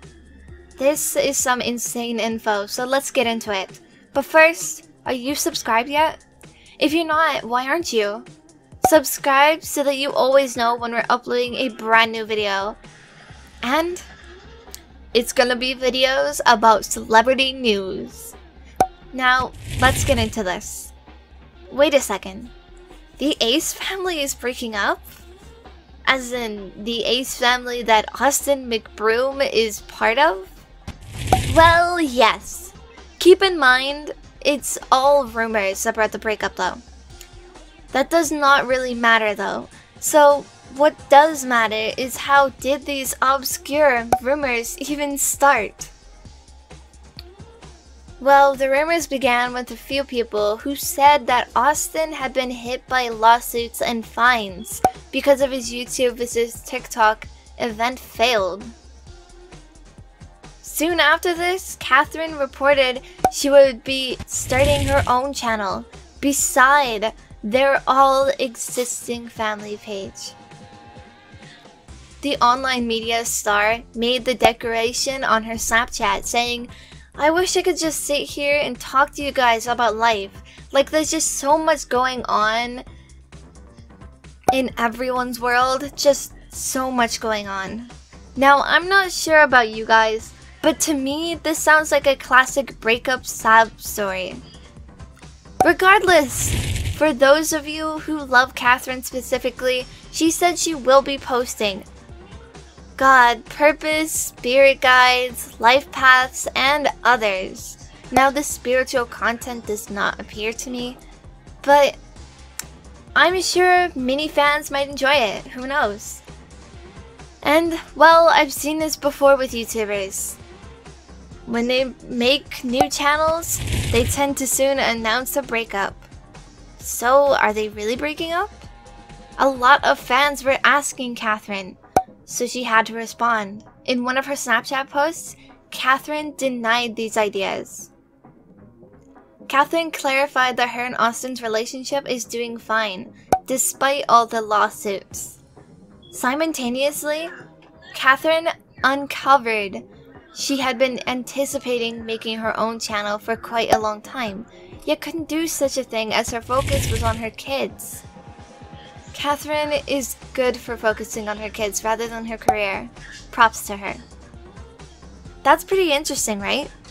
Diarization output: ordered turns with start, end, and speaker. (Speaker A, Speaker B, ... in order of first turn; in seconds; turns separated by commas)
Speaker A: 0.8-6.2, Speaker A: 6.8-8.2, Speaker A: 8.8-12.8, Speaker A: 13.6-14.0, Speaker A: 15.1-18.3, Speaker A: 19.1-20.9, Speaker A: 21.7-22.5, Speaker A: 23.2-25.2, Speaker A: 26.1-30.5, Speaker A: 31.5-36.8, Speaker A: 37.9-45.9, Speaker A: 48.2-58.7, Speaker A: 60.6-70.4, Speaker A: 72.2-82.8, Speaker A: 84.5-94.4, Speaker A: 95.6-101.9, Speaker A: 103.0-111.0, Speaker A: 111.6-112.0, Speaker A: 113.1-116.2, Speaker A: 117.4-120.4, Speaker A: 121.5-126.1, Speaker A: 126.8-128.7, Speaker A: 129.4-137.9, Speaker A: 139.5-145.4, Speaker A: 146.1-147.3, Speaker A: 147.9-158.0, Speaker A: 159.1-164.0, Speaker A: 165.4-166.7